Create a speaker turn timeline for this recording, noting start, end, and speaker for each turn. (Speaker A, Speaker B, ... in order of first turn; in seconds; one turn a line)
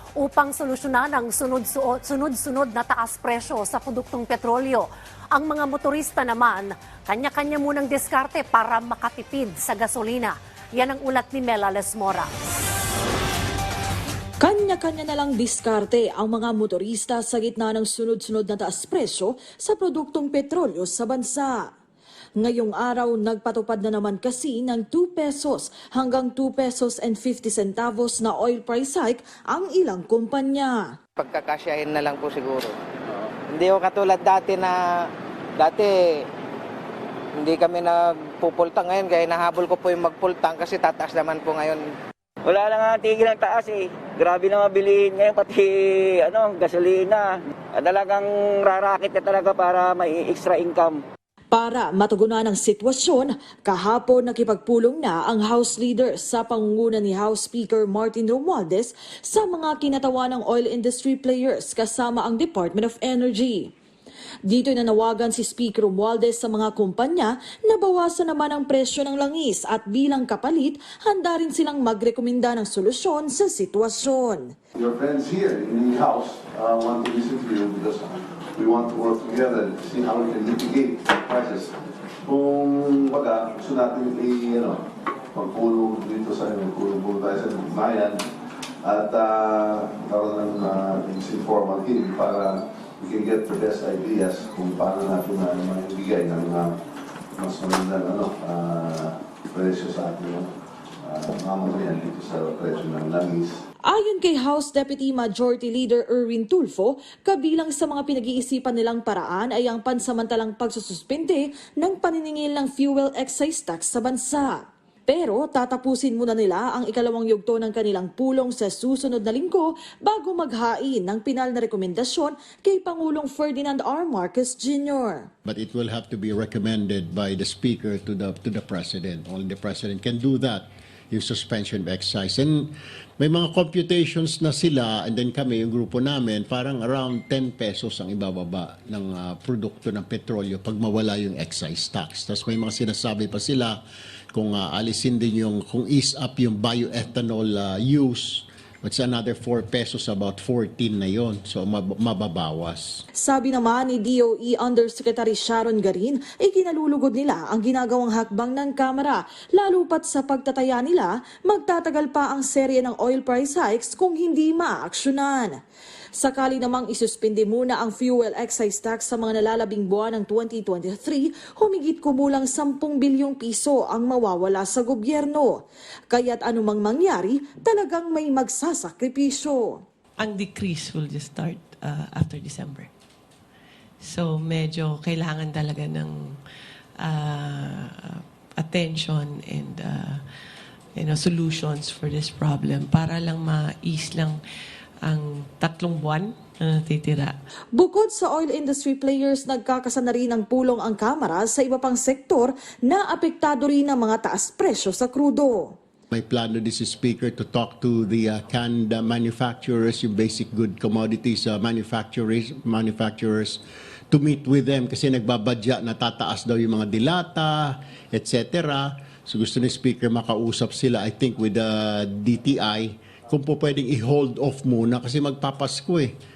Speaker A: 0.4-4.8
Speaker A: 5.4-10.2
Speaker A: 10.8-12.2
Speaker B: 14.4-21.7
Speaker B: 22.4-30.9
Speaker C: 31.2-32.7
Speaker C: 33.5-34.8
Speaker C: 35.6-35.9
Speaker C: 37.4-41.8
Speaker D: 42.5-51.0
Speaker B: 51.5-63.7
Speaker B: 64.5-74.5
Speaker E: 74.7-88.2
Speaker E: 88.8-96.7
Speaker E: 97.4-100.5
Speaker E: 101.0-103.5
Speaker B: 103.8-125.3
Speaker F: 125.4-143.8
Speaker F: 144.3-153.0
Speaker B: 153.2-165.5
Speaker B: 166.2-175.6
Speaker B: 176.1-179.8
Speaker G: 180.2-182.9
Speaker G: 184.0-186.4
Speaker G: 187.0-190.2
Speaker G: 190.9-194.4
Speaker G: 195.0-197.3
Speaker B: 197.7-205.7
Speaker F: 206.1-226.1